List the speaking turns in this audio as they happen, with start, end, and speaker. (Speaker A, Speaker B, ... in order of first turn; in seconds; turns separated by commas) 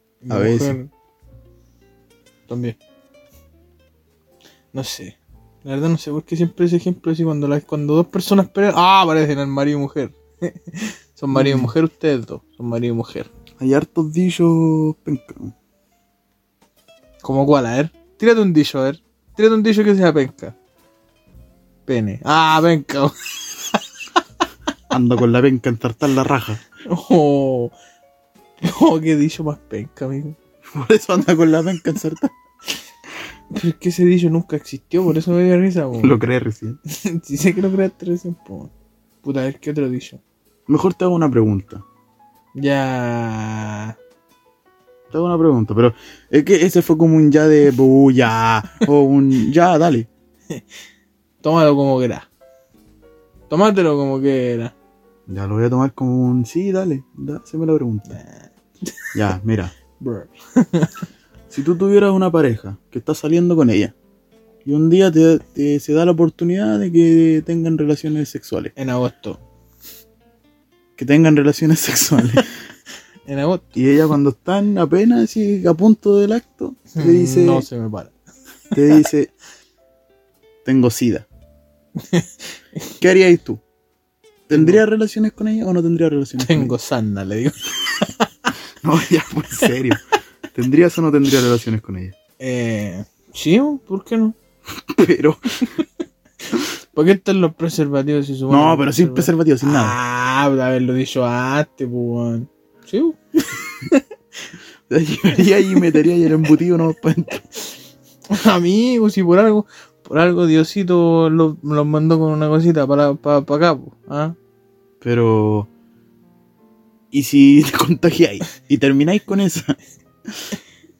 Speaker A: 0.2-0.9, Speaker B: 0.3-0.8, Speaker A: 2.5-2.8, Speaker A: 4.7-13.3, Speaker B: 11.3-11.7, Speaker B: 13.6-15.5, Speaker A: 17.2-20.6, Speaker A: 21.9-23.8, Speaker B: 24.9-26.6, Speaker A: 26.9-27.7, Speaker A: 28.6-30.4, Speaker B: 30.7-32.3, Speaker A: 33.5-36.1, Speaker B: 36.0-36.8, Speaker A: 36.9-38.7, Speaker A: 39.2-40.2, Speaker B: 40.7-41.9, Speaker A: 42.5-44.0, Speaker B: 45.1-50.1, Speaker A: 51.4-52.3, Speaker A: 53.5-54.7, Speaker B: 55.3-58.2, Speaker A: 58.1-59.1, Speaker B: 59.1-59.7, Speaker A: 60.0-61.0, Speaker B: 61.5-63.9, Speaker B: 64.7-68.7, Speaker A: 68.8-69.4, Speaker B: 71.0-72.5, Speaker A: 73.3-73.7, Speaker B: 73.8-77.7, Speaker A: 76.9-78.1, Speaker A: 78.7-79.0, Speaker B: 78.7-79.3, Speaker B: 80.7-81.3, Speaker A: 82.0-82.9, Speaker B: 83.0-83.6, Speaker B: 84.5-86.8, Speaker A: 84.5-84.8, Speaker A: 86.4-88.5, Speaker B: 88.8-92.2, Speaker A: 92.4-94.4, Speaker B: 94.8-95.7, Speaker A: 96.5-104.0, Speaker B: 98.5-100.0, Speaker B: 104.9-107.5, Speaker A: 108.3-114.3, Speaker B: 115.0-115.7, Speaker B: 117.1-119.8, Speaker B: 120.3-120.5